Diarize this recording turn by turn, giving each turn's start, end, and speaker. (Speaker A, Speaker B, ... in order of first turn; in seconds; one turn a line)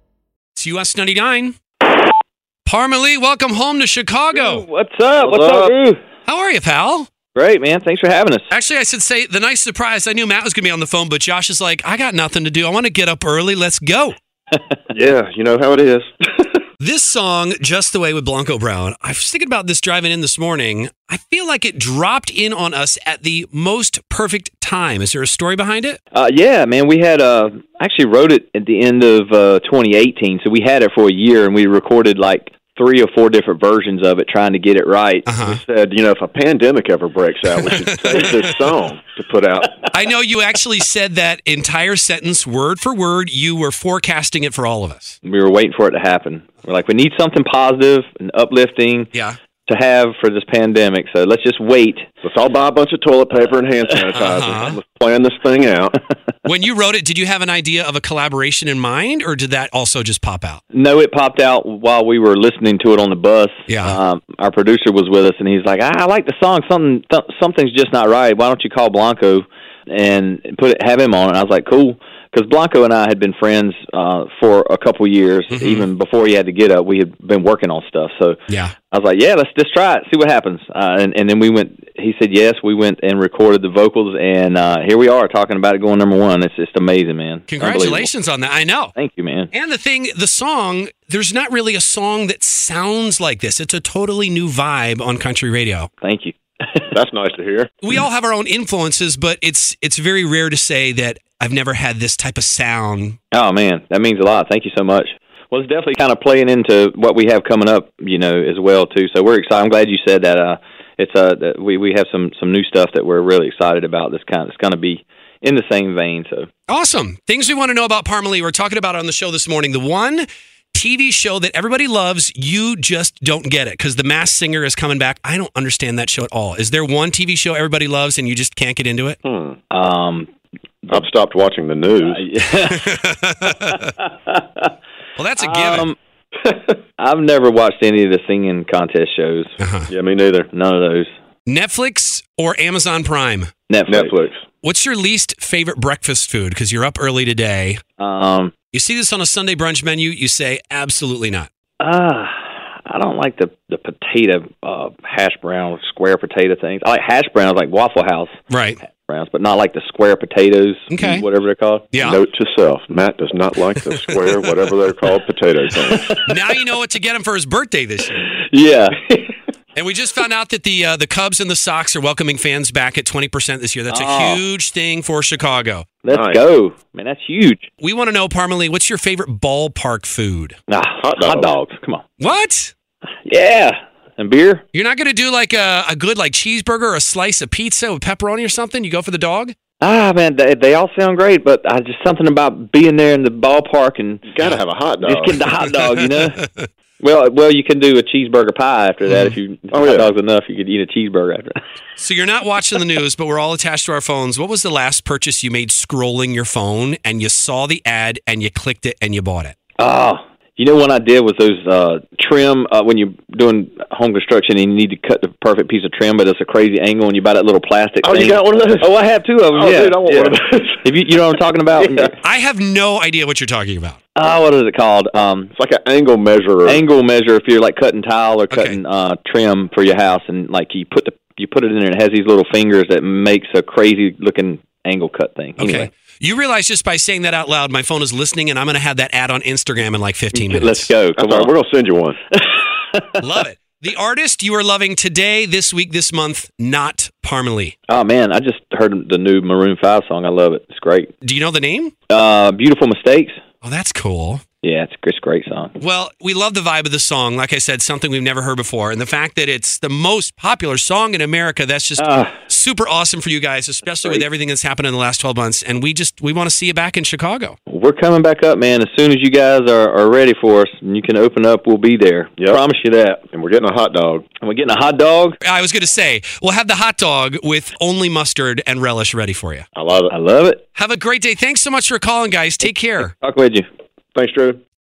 Speaker A: 0.5-1.6
Speaker A: 2.6-4.6
Speaker B: 4.3-6.0
Speaker C: 5.2-5.8
Speaker A: 6.2-7.1
Speaker B: 7.3-8.5
Speaker A: 8.5-14.2
Speaker C: 14.9-16.6
Speaker A: 16.8-26.0
Speaker B: 26.1-35.3
Speaker A: 35.2-35.6
Speaker C: 35.4-39.8
Speaker A: 37.6-38.5
Speaker A: 39.9-45.1
Speaker B: 45.2-49.1
Speaker B: 49.7-52.1
Speaker C: 52.2-56.0
Speaker A: 54.1-54.8
Speaker A: 56.4-60.6
Speaker B: 60.7-78.4
Speaker A: 63.7-64.0
Speaker A: 75.5-75.8
Speaker A: 78.5-78.7
Speaker B: 78.9-88.1
Speaker A: 87.5-88.9
Speaker B: 88.9-89.5
Speaker A: 89.5-95.9
Speaker B: 96.0-96.9
Speaker C: 96.9-97.7
Speaker A: 97.8-103.2
Speaker B: 103.3-116.5
Speaker A: 116.7-129.2
Speaker C: 129.2-129.6
Speaker B: 129.7-130.3
Speaker C: 130.9-132.2
Speaker B: 132.1-134.7
Speaker A: 132.6-133.9
Speaker A: 135.2-135.9
Speaker B: 135.4-135.9
Speaker C: 136.4-136.7
Speaker B: 137.0-139.5
Speaker A: 139.6-139.9
Speaker C: 139.9-140.5
Speaker B: 140.5-141.1
Speaker A: 141.4-143.5
Speaker B: 143.7-144.2
Speaker C: 143.9-144.3
Speaker A: 144.6-147.8
Speaker B: 148.0-148.5
Speaker A: 148.7-151.5
Speaker B: 151.8-161.9
Speaker A: 158.5-158.8
Speaker A: 160.9-161.2
Speaker A: 161.9-162.2
Speaker C: 162.0-166.2
Speaker A: 163.9-164.6
Speaker A: 166.1-168.3
Speaker B: 168.2-169.3
Speaker A: 169.8-175.8
Speaker B: 173.9-174.4
Speaker B: 176.0-177.7
Speaker C: 176.1-176.4
Speaker A: 177.8-180.5
Speaker B: 180.7-182.0
Speaker C: 181.0-181.5
Speaker A: 182.2-182.7
Speaker B: 183.2-184.6
Speaker A: 184.7-189.5
Speaker B: 189.8-194.3
Speaker C: 194.2-195.4
Speaker B: 195.0-196.4
Speaker A: 195.6-196.7
Speaker B: 197.0-201.6
Speaker A: 199.1-199.3
Speaker C: 199.7-200.1
Speaker A: 202.0-209.5
Speaker B: 209.8-222.1
Speaker C: 218.0-218.9
Speaker C: 219.5-220.8
Speaker A: 222.2-224.0
Speaker B: 224.2-225.5
Speaker C: 225.5-226.8
Speaker B: 226.7-235.9
Speaker A: 228.5-228.8
Speaker A: 235.6-240.9
Speaker B: 240.3-241.5
Speaker C: 241.2-242.2
Speaker B: 242.3-243.1
Speaker A: 243.2-247.7
Speaker B: 247.9-251.1
Speaker A: 251.2-251.9
Speaker B: 252.1-253.4
Speaker A: 253.6-254.4
Speaker B: 254.6-255.8
Speaker A: 255.8-267.6
Speaker B: 262.0-262.3
Speaker B: 267.7-273.2
Speaker C: 273.3-274.2
Speaker B: 274.4-275.4
Speaker A: 275.4-279.6
Speaker C: 279.7-280.1
Speaker B: 280.1-280.6
Speaker A: 280.7-283.1
Speaker B: 283.0-283.6
Speaker C: 284.1-284.6